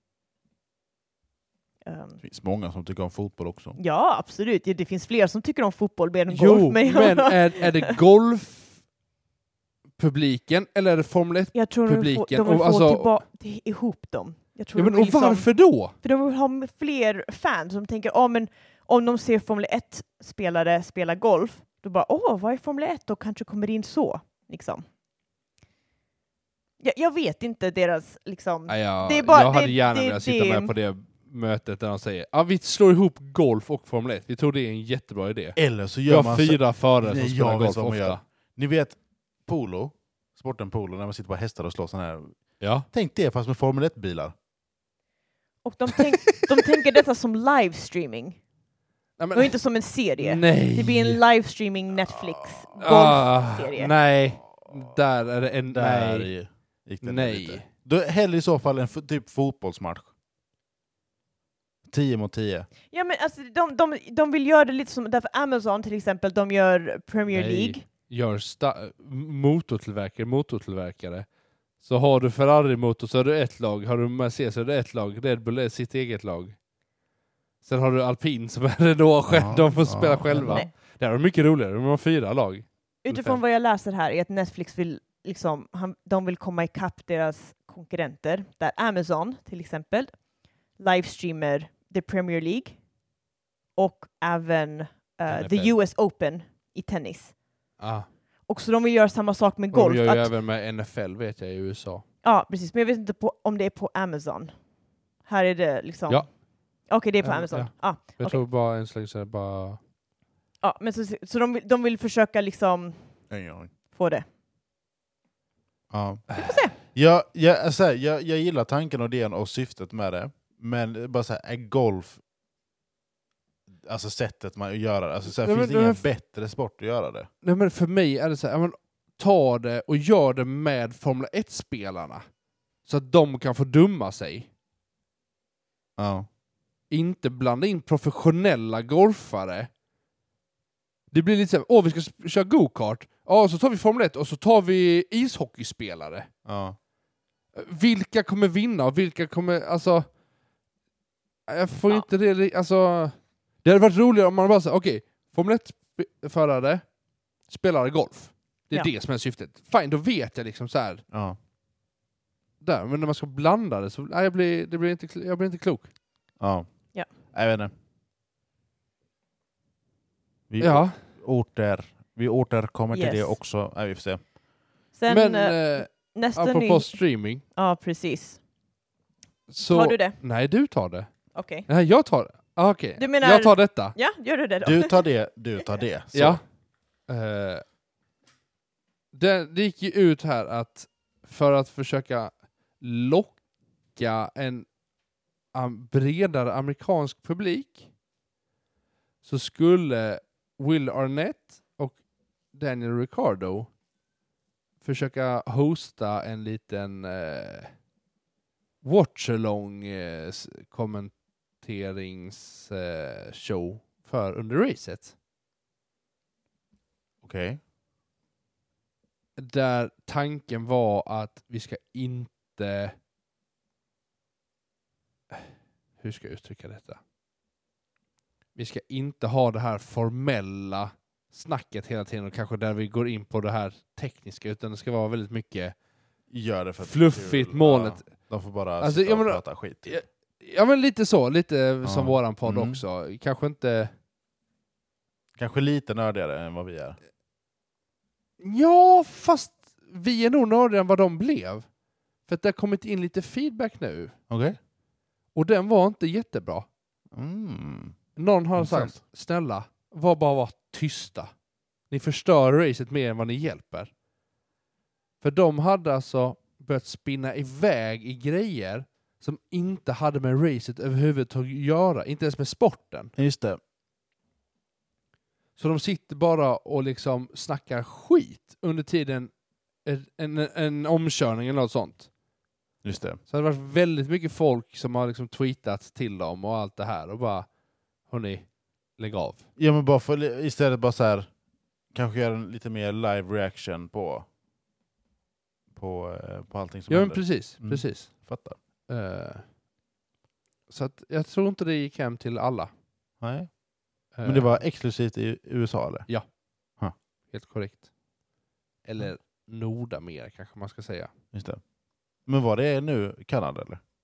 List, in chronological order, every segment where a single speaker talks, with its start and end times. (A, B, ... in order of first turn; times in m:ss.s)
0:01.8-0:02.2 A
0:02.2-0:03.8 B
0:03.8-0:07.9 A
0:06.3-0:08.8 C
0:10.0-0:13.1 C
0:11.5-0:24.8 A
0:14.7-0:15.9 C
0:26.8-0:30.7 A
0:28.7-0:38.2 C
0:35.6-0:44.3 B
0:42.6-0:42.9 C
0:45.6-0:48.4 A
0:49.2-0:49.6 C
0:49.3-0:53.9 A
0:50.2-0:51.2 C
0:52.8-0:56.3 C
0:55.7-1:00.1 B
0:57.0-0:57.7 C
1:01.9-1:02.7 B
1:02.9-1:07.8 A
1:07.3-1:11.3 C
1:11.8-1:16.6 C
1:17.6-1:23.4 C
1:19.3-1:20.6 B
1:20.4-1:20.7 A
1:23.0-1:32.8 A
1:33.8-1:37.4 A
1:35.3-1:35.8 C
1:37.8-1:38.1 C
1:38.5-1:40.3 A
1:39.7-1:42.0 C
1:42.2-1:44.5 A
1:45.2-1:46.3 A
1:46.9-1:48.4 A
1:47.2-1:49.8 C
1:50.6-1:53.2 A
1:53.3-1:53.7 B
1:53.9-1:54.2 A
1:55.9-2:02.2 B
1:56.4-1:56.8 A
2:03.7-2:07.3 B
2:05.3-2:06.0 C
2:07.4-2:12.2 C
2:12.8-2:14.5 C
2:16.0-2:16.3 B
2:16.9-2:19.7 C
2:21.1-2:26.3 C
2:26.4-2:26.8 B
2:27.5-2:30.1 C
2:31.5-2:36.8 C
2:37.4-2:41.0 C
2:41.1-2:41.4 B
2:42.6-2:45.9 C
2:46.4-2:47.7 B
2:50.5-2:54.3 B
2:50.6-2:51.0 C
2:52.9-2:53.4 A
2:54.9-2:58.4 A
2:55.1-2:57.4 C
2:59.5-3:01.1 C
2:59.6-3:00.2 A
3:01.3-3:01.7 A
3:01.7-3:04.0 C
3:03.0-3:05.0 A
3:04.6-3:06.4 B
3:06.1-3:06.4 C
3:07.1-3:07.6 C
3:09.1-3:13.4 C
3:13.9-3:14.7 C
3:15.5-3:17.9 C
3:19.2-3:22.0 C
3:22.5-3:23.7 C
3:24.8-3:27.7 C
3:28.8-3:35.1 C
3:37.2-3:37.6 B
3:39.4-3:42.9 C
3:46.0-3:47.0 C
3:48.5-3:55.7 C
3:56.3-4:00.0 B
3:56.8-3:58.1 C
3:58.8-4:03.9 C
4:01.8-4:02.8 B
4:05.4-4:07.0 B
4:08.4-4:11.7 C
4:12.3-4:14.1 C
4:14.3-4:14.6 B
4:15.3-4:16.7 C
4:17.1-4:18.0 B
4:18.2-4:21.3 C
4:18.6-4:19.0 B
4:21.9-4:23.9 C
4:25.2-4:33.1 C
4:33.2-4:33.6 B
4:35.6-4:39.3 C
4:39.8-4:42.1 C
4:42.8-4:43.2 B
4:43.3-4:47.5 C
4:48.0-4:49.4 C
4:49.6-4:51.3 B
4:51.9-4:54.3 B
4:55.7-4:58.6 B
4:56.9-4:58.2 C
4:58.9-4:59.5 C
5:00.7-5:02.7 C
5:03.2-5:03.6 B
5:04.1-5:04.6 C
5:04.2-5:06.1 B
5:07.3-5:07.9 C
5:08.8-5:11.1 C
5:11.3-5:11.6 B
5:12.2-5:13.8 B